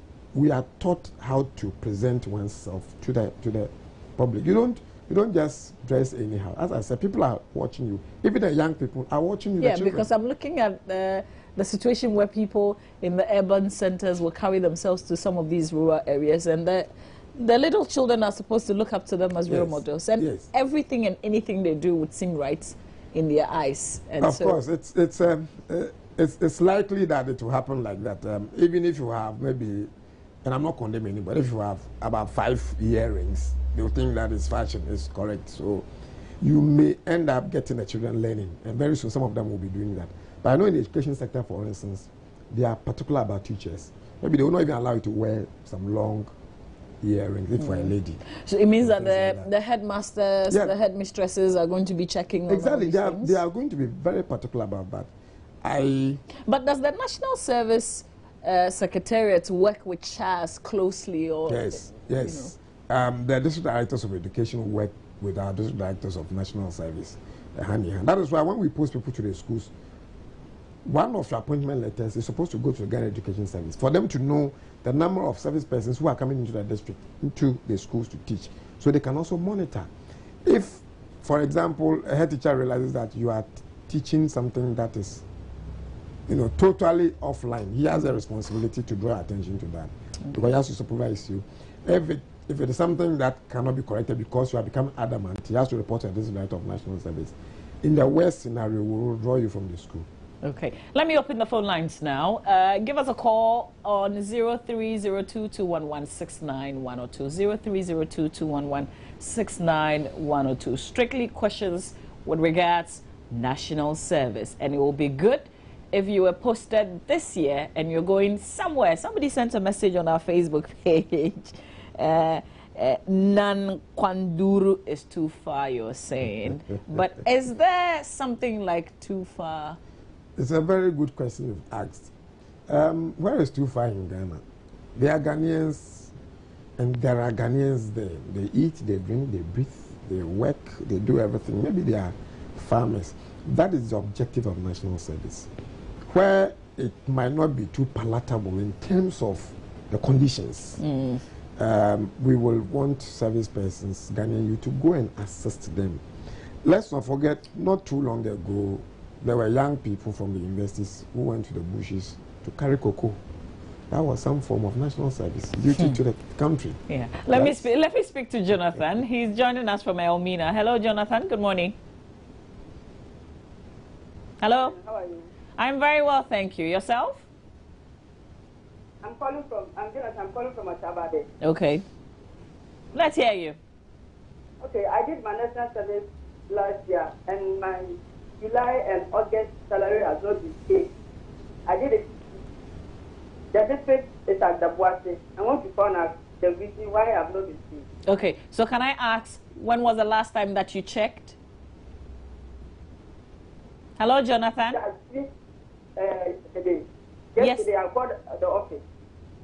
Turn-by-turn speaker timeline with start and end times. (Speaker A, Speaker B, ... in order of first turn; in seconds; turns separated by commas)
Speaker A: 0.3-10.1, Speaker B: 9.6-24.6, Speaker A: 19.5-20.5, Speaker A: 24.2-29.9, Speaker A: 30.4-35.9, Speaker A: 36.4-46.3, Speaker A: 47.0-48.2, Speaker B: 47.6-53.4, Speaker A: 48.8-49.5, Speaker A: 50.5-50.8, Speaker A: 52.5-55.1, Speaker A: 55.6-56.2, Speaker B: 56.5-62.5, Speaker A: 61.5-69.7, Speaker A: 70.8-79.9, Speaker A: 80.4-85.2, Speaker A: 86.3-100.1, Speaker B: 100.4-129.8, Speaker A: 130.4-132.1, Speaker A: 132.7-134.4, Speaker A: 134.9-136.1, Speaker A: 136.8-145.5, Speaker A: 146.1-150.8, Speaker B: 150.8-151.2, Speaker A: 151.6-156.0, Speaker A: 156.6-163.2, Speaker A: 163.9-166.8, Speaker B: 166.9-171.8, Speaker A: 167.3-167.7, Speaker B: 174.4-174.7, Speaker C: 174.5-175.3, Speaker B: 175.6-177.2, Speaker C: 179.0-181.3, Speaker B: 181.4-181.8, Speaker B: 182.9-183.6, Speaker C: 184.6-190.9, Speaker C: 191.7-192.4, Speaker C: 193.5-197.8, Speaker B: 198.1-201.3, Speaker B: 204.0-204.8, Speaker C: 204.7-205.3, Speaker C: 206.0-208.8, Speaker B: 207.4-207.7